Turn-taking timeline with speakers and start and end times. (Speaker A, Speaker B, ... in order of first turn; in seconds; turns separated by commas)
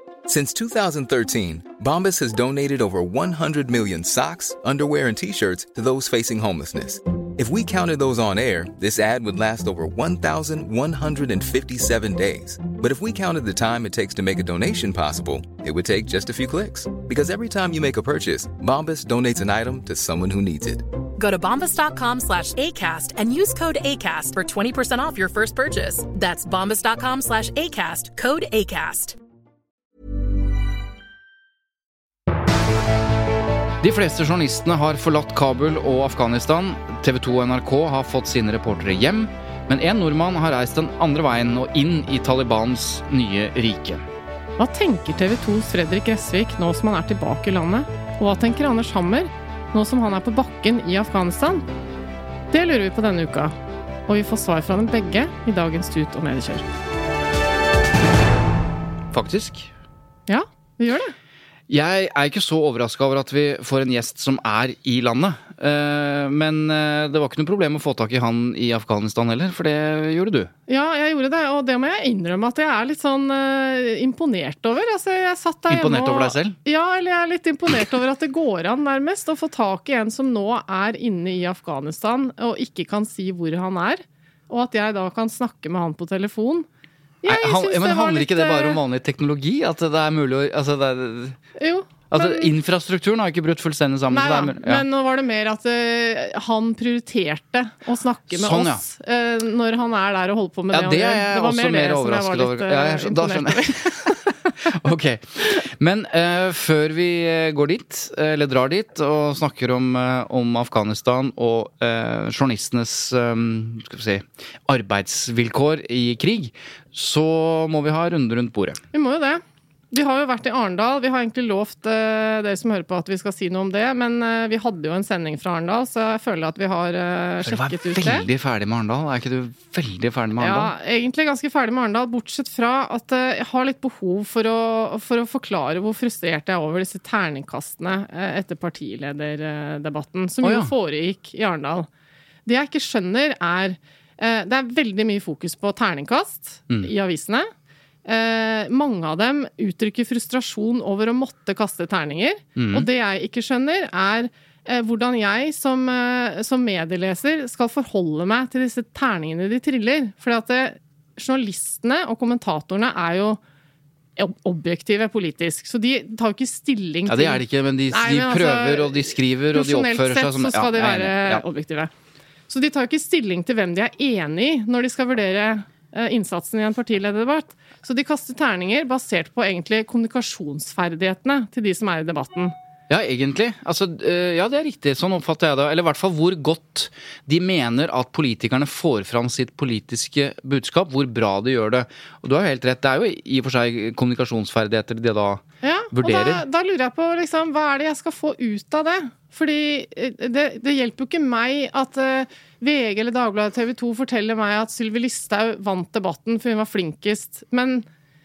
Speaker A: 0.3-20.9, Speaker B: 21.2-29.2, Speaker C: 33.8-44.0, Speaker D: 44.6-51.7, Speaker D: 52.5-53.5, Speaker D: 54.1-56.6, Speaker C: 59.1-59.7, Speaker D: 60.3-61.1, Speaker C: 61.7-70.5, Speaker D: 70.7-86.7, Speaker C: 75.7-76.6, Speaker D: 87.2-88.8, Speaker C: 87.3-91.4, Speaker D: 91.6-92.5, Speaker C: 92.1-94.8, Speaker D: 94.1-104.2, Speaker C: 98.3-98.8, Speaker C: 100.7-118.8, Speaker D: 118.9-128.3, Speaker C: 127.5-130.7, Speaker D: 130.4-141.9, Speaker C: 140.4-140.7, Speaker D: 142.5-147.5, Speaker D: 148.1-163.4, Speaker C: 152.6-152.8, Speaker D: 164.2-171.9, Speaker C: 167.1-171.4, Speaker D: 172.5-182.5, Speaker C: 182.9-196.4, Speaker D: 195.6-207.9